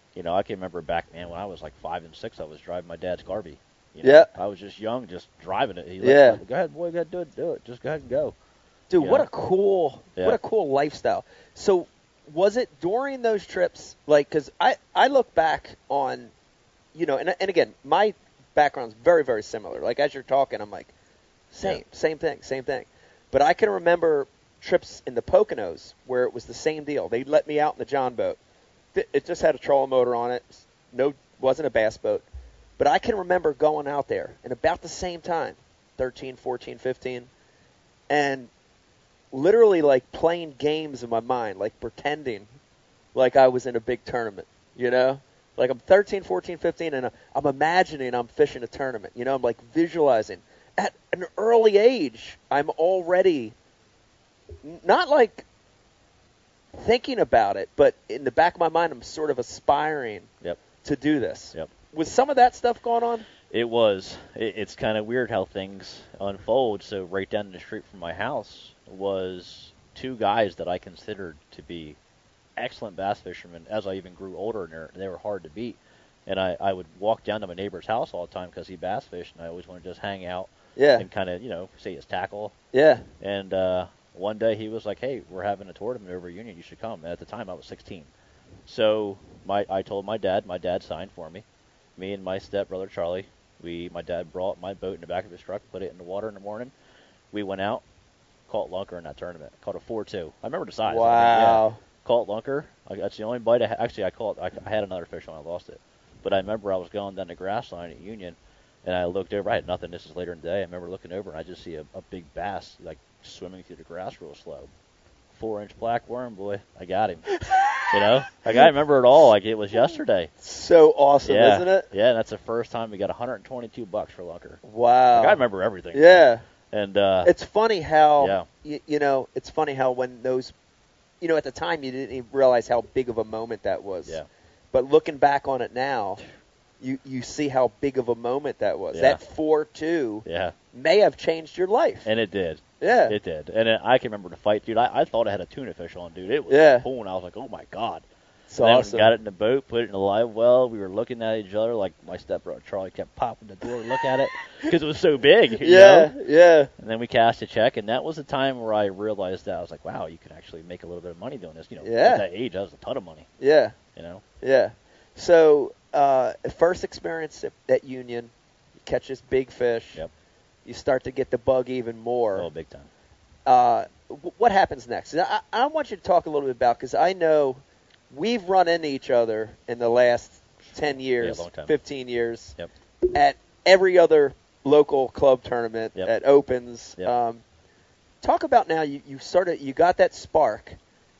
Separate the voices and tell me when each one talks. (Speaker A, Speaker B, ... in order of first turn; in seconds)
Speaker A: 0.1-8.3, 9.0-9.3, 63.5-72.0, 72.5-82.5, 83.2-88.1, 88.7-91.4, 92.0-96.7, 97.3-97.8, 98.5-114.7, 115.3-117.3, 117.9-120.3, 121.2-124.6, 125.1-127.3, 128.2-128.5, 138.9-139.2, 140.2-140.5, 142.0-148.0, 148.6-156.2, 156.8-163.3, 163.9-164.2, 172.3-172.9, 181.2-181.7
Speaker B: 4.0-4.3, 6.0-6.4, 8.9-16.3, 16.9-20.9, 21.5-28.4, 28.9-32.2, 32.8-37.3, 38.1-38.5, 39.3-42.5, 43.1-53.5, 54.6-55.4, 56.7-60.3, 60.8-63.3, 80.8-81.0, 82.7-83.0, 100.9-101.8, 117.4-118.7, 119.8-121.9, 124.6-125.4, 125.9-126.4, 127.2-130.5, 131.2-134.2, 134.7-136.2, 136.8-142.1, 142.8-143.2, 146.5-146.9, 148.5-149.1, 155.6-156.7, 161.8-162.2, 163.4-163.8, 164.4-168.3, 168.8-170.0, 170.6-172.5, 173.4-182.5, 183.1-187.4, 188.2-190.8